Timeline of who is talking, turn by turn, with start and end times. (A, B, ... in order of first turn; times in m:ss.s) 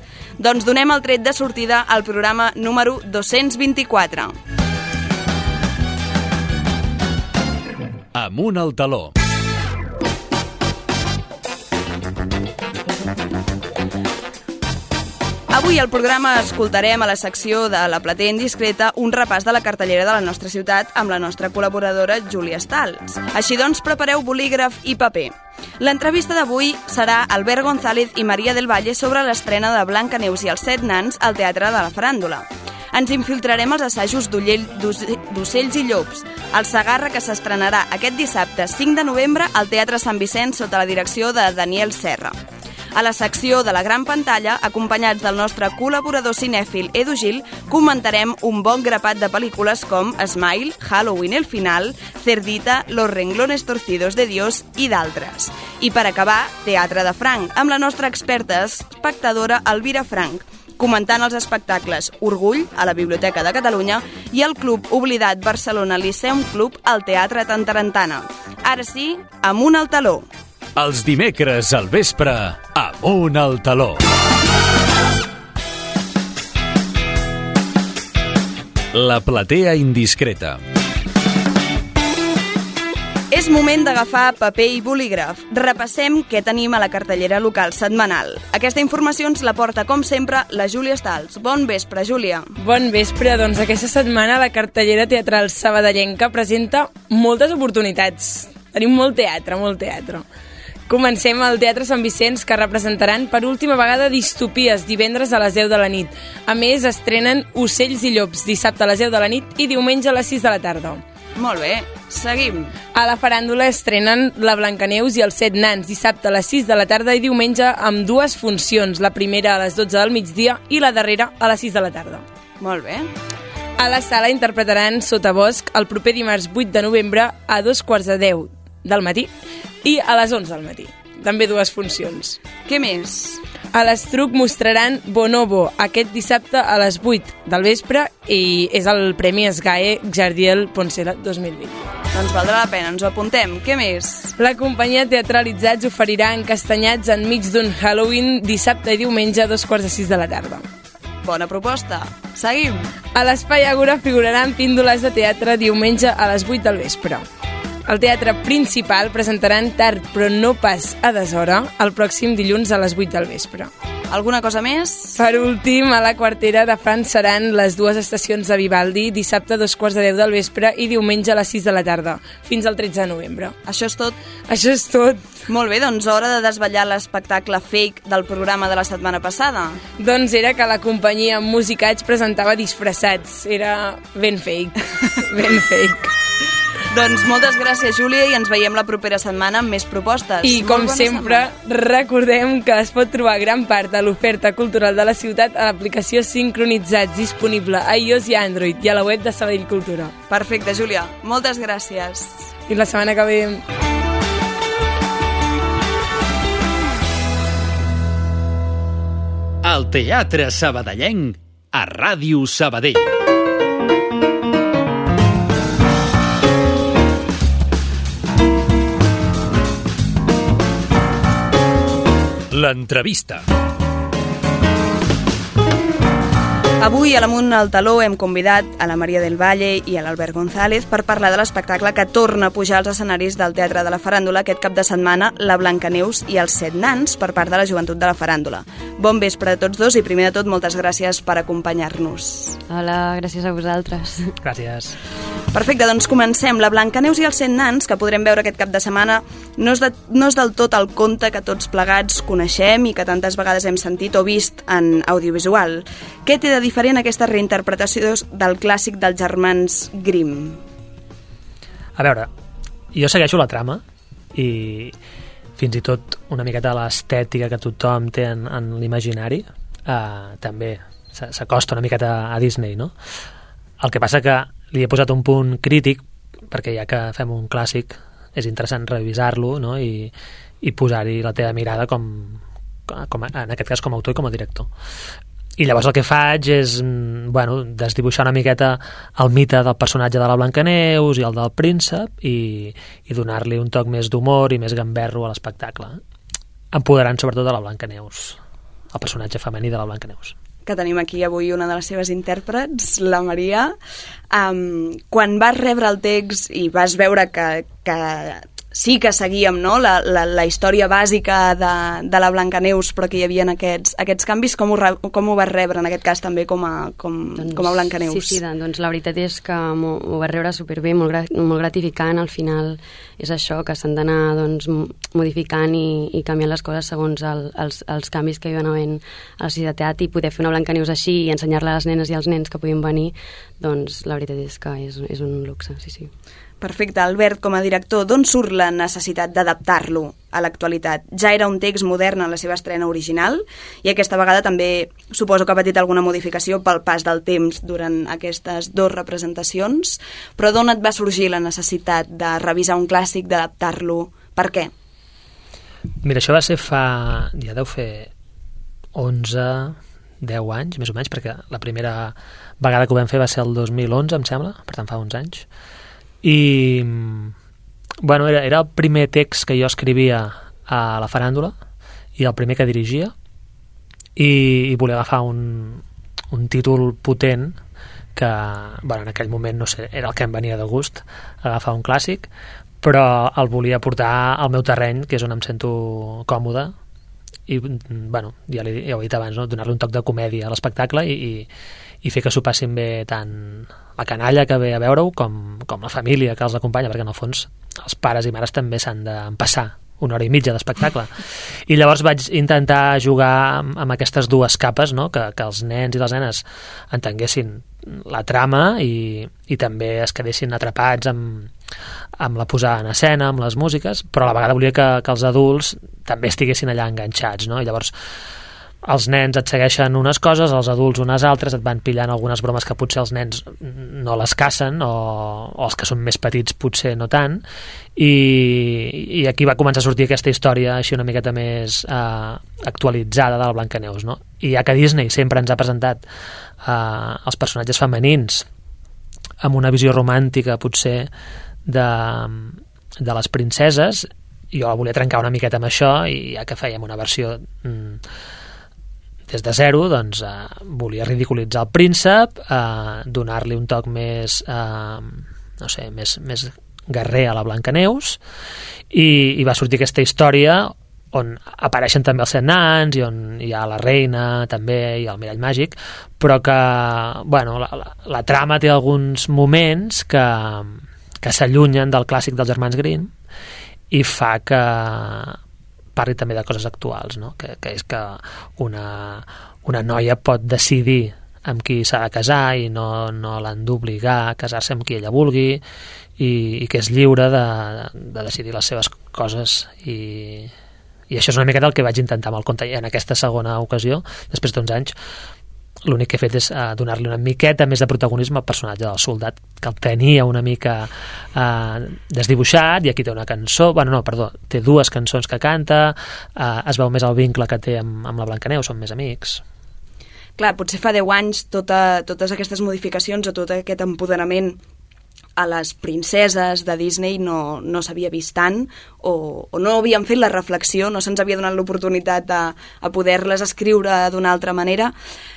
0:00.4-0:04.4 A
0:08.1-0:09.1 B
0:15.5-0:42.3 A
0:42.9-1:10.3 A
1:10.8-1:14.0 B
1:18.9-1:20.6 B
1:23.3-1:32.5 A
1:32.6-1:40.2 C
1:40.9-1:51.0 C
1:51.4-1:52.7 A
1:52.9-2:02.2 C
2:02.6-2:03.1 A
2:03.8-2:09.3 C
2:09.8-2:12.4 C
2:12.6-2:13.4 A
2:13.7-2:21.8 C
2:22.1-2:24.3 A
2:24.4-2:30.6 C
2:31.2-2:32.9 A
2:33.1-2:37.2 C
2:37.9-2:43.7 C
2:44.1-2:45.2 A
2:45.2-2:53.6 C
2:53.6-2:54.2 A
2:54.5-2:55.4 C
2:55.5-2:59.8 A
3:00.0-3:06.1 C
3:06.9-3:11.5 A
3:10.4-3:20.1 C
3:20.3-3:22.5 A
3:22.7-3:23.6 C
3:29.6-3:33.1 B
3:42.5-3:43.4 B
3:46.8-4:02.6 A
4:02.7-4:04.3 D
4:04.4-4:05.0 E
4:05.5-4:20.6 A
4:22.0-4:22.3 E
4:22.9-4:23.8 E
4:24.3-4:24.9 E
4:25.6-4:32.9 E
4:33.8-4:40.1 E
4:40.6-4:44.7 E
4:45.6-4:56.0 E
4:56.7-4:58.4 E
4:58.9-5:00.3 E
5:00.6-5:03.7 A
5:04.3-5:18.4 A
5:17.4-5:36.1 D
5:36.6-5:54.7 A
5:56.0-5:58.1 E
5:58.9-6:05.4 E
6:06.2-6:07.3 E
6:08.0-6:11.5 E
6:12.2-6:13.1 E
6:14.2-6:17.6 E
6:18.2-6:22.3 E
6:22.8-6:26.7 E
6:27.5-6:31.5 E
6:32.0-6:51.5 E
6:52.2-6:57.9 E
6:58.8-7:07.4 E
7:08.0-7:16.0 E
7:16.6-7:18.4 E
7:19.4-7:21.1 E
7:21.6-7:28.0 E
7:29.3-7:38.2 E
7:38.9-7:53.1 E
7:53.9-7:55.4 E
7:56.0-8:05.6 E
8:06.2-8:10.5 E
8:11.1-8:14.9 E
8:15.8-8:29.4 E
8:30.4-8:34.6 A
8:35.4-8:44.9 A